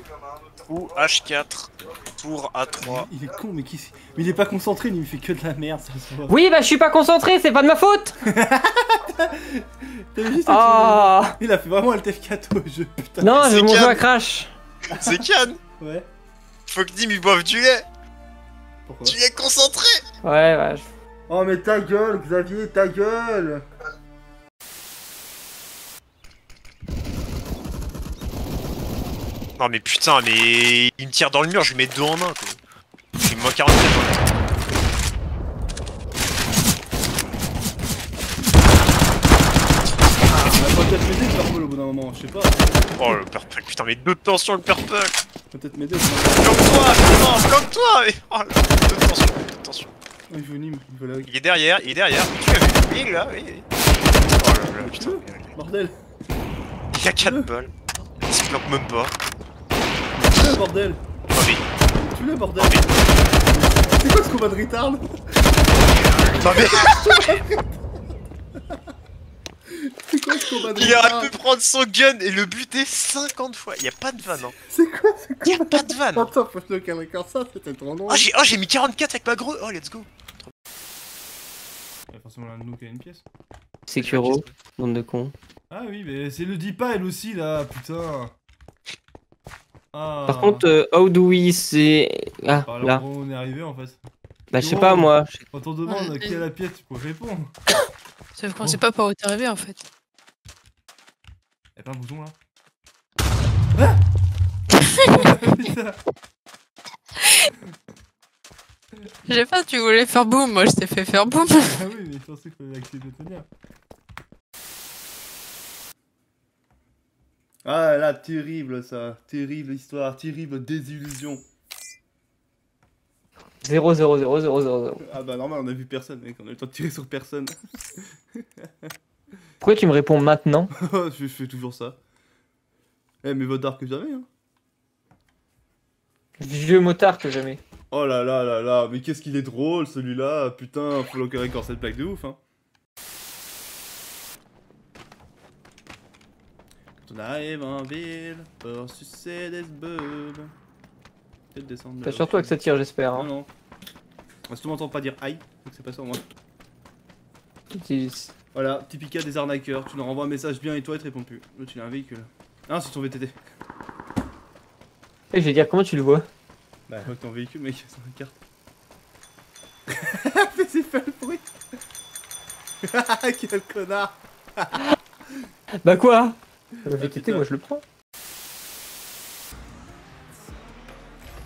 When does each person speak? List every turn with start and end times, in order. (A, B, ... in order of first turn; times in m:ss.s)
0:00.7-0:03.1 A
0:02.8-0:06.4 B
0:06.3-0:08.2 C
0:08.2-0:13.7 B
0:10.5-0:11.4 C
0:13.2-0:14.5 C
0:13.4-0:14.0 A
0:14.9-0:15.6 A
0:15.8-0:16.1 B
0:16.7-0:17.9 A
0:18.9-0:19.2 B
0:19.0-0:20.0 A
0:20.2-0:20.9 C
0:21.3-0:23.6 B
0:29.6-0:32.6 A
0:33.2-0:34.3 A
0:40.3-0:42.7 B
0:43.0-0:45.2 A
0:45.5-0:47.0 B
0:46.3-0:49.9 A
0:50.3-0:51.3 B
0:51.2-0:53.7 A
0:54.4-0:55.5 A
0:54.6-0:56.0 B
0:56.9-0:57.7 A
0:57.2-0:57.5 B
0:58.2-0:59.1 A
1:00.2-1:01.0 B
1:01.3-1:01.6 A
1:01.9-1:05.1 B
1:02.6-1:03.0 A
1:05.8-1:07.4 A
1:06.5-1:07.7 B
1:09.7-1:11.4 B
1:10.5-1:14.6 A
1:14.6-1:18.3 B
1:15.6-1:16.3 A
1:18.1-1:20.5 A
1:22.1-1:23.2 B
1:23.9-1:25.3 C
1:24.0-1:24.5 A
1:25.7-1:28.3 B
1:29.9-1:30.7 B
1:30.2-1:33.0 C
1:32.6-1:34.0 B
1:34.5-1:35.4 C
1:34.6-1:37.5 B
1:35.9-1:36.4 D
1:38.4-1:39.8 D
1:41.8-1:42.4 B
1:43.8-1:44.0 B
1:45.1-1:46.0 B
1:49.3-1:51.7 D
1:51.6-1:53.5 B
1:57.6-2:01.4 B
2:03.6-2:05.0 C
2:05.0-2:07.6 B
2:08.3-2:08.9 B
2:09.6-2:10.7 C
2:10.8-2:12.0 B
2:13.2-2:14.3 B
2:16.4-2:17.6 C
2:17.9-2:22.4 B
2:27.0-2:30.5 B
2:31.5-2:32.6 B
2:32.0-2:33.3 C
2:33.1-2:33.5 B
2:34.5-2:36.2 B
2:37.7-2:38.3 C
2:38.5-2:43.4 B
2:45.3-2:46.3 C
2:46.9-2:48.4 B
2:49.9-2:51.4 B
2:52.8-2:54.8 B
2:55.8-2:57.8 C
2:56.9-2:57.5 B